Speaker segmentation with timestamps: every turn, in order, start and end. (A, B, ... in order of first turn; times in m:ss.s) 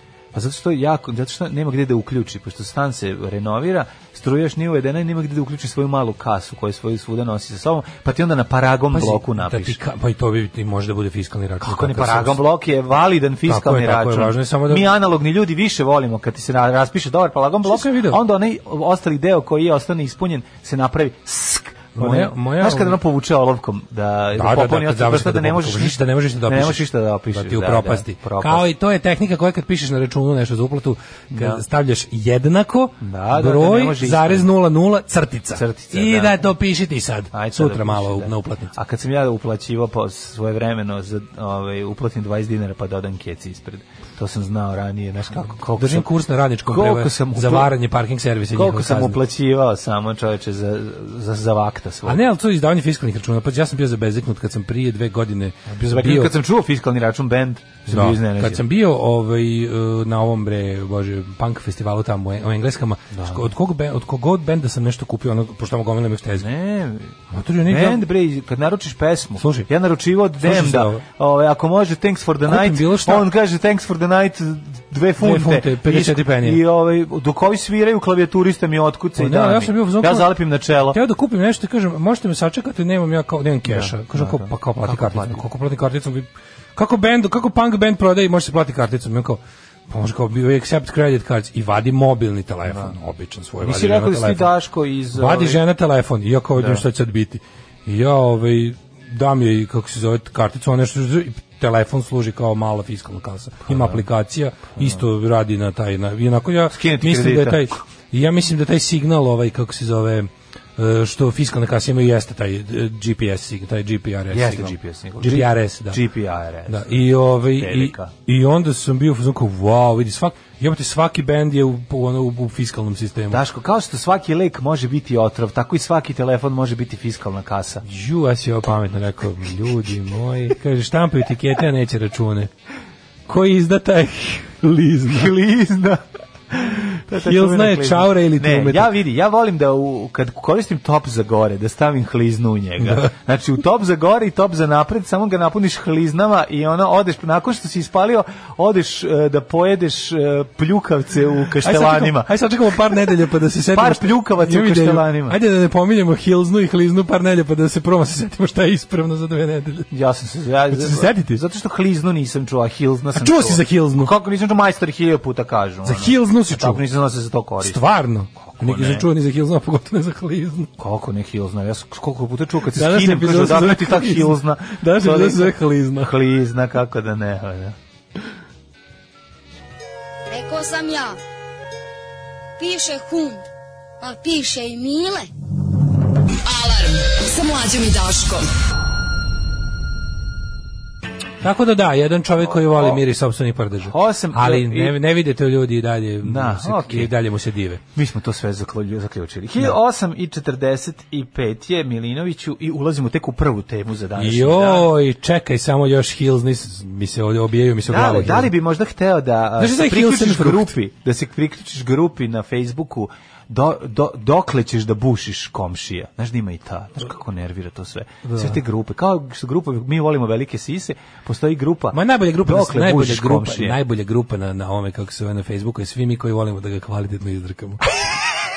0:00.3-0:09.8 A
0:08.9-0:12.4 B
0:11.6-0:28.7 A
0:13.4-0:14.9 B
0:17.6-0:18.2 B
0:22.0-0:23.0 B
0:24.4-0:38.7 B
0:31.3-0:31.6 A
0:33.0-0:34.5 A
0:35.5-0:36.4 A
0:37.3-0:46.1 A
0:45.8-0:49.2 B
0:46.6-0:47.7 A
0:48.5-0:52.2 A
0:52.0-0:56.3 B
0:55.7-0:58.6 A
0:57.9-1:06.5 B
1:03.1-1:03.4 A
1:06.4-1:21.0 A
1:07.3-1:08.0 B
1:09.4-1:09.7 B
1:10.4-1:11.0 B
1:12.4-1:13.3 B
1:15.2-1:16.6 B
1:19.2-1:20.4 B
1:20.9-1:34.5 B
1:23.7-1:25.4 A
1:32.7-1:32.9 A
1:33.6-1:35.6 A
1:35.1-1:56.0 B
1:36.6-1:36.8 A
1:43.7-1:44.0 A
1:46.7-1:47.8 A
1:54.3-1:58.1 A
1:56.6-2:03.4 B
2:03.3-2:07.8 A
2:07.8-2:12.5 B
2:13.3-2:15.4 B
2:15.1-2:32.3 A
2:17.1-2:19.0 B
2:22.8-2:23.1 B
2:31.6-2:39.9 B
2:33.7-2:35.4 A
2:39.9-2:47.8 A
2:40.7-2:41.4 B
2:43.1-2:44.1 B
2:45.8-2:46.8 B
2:47.6-2:50.7 B
2:48.4-2:49.1 A
2:50.8-2:57.8 A
2:52.7-2:56.2 B
3:00.3-3:01.1 C
3:02.6-3:03.4 C
3:04.0-3:05.2 C
3:06.4-3:08.5 D
3:11.4-3:17.8 B
3:12.5-3:13.0 A
3:13.8-3:15.0 A
3:16.2-3:17.1 A
3:17.9-3:24.9 A
3:24.2-3:28.5 B
3:27.9-3:43.8 A
3:29.6-3:30.7 B
3:38.2-3:38.6 B
3:41.9-3:48.2 B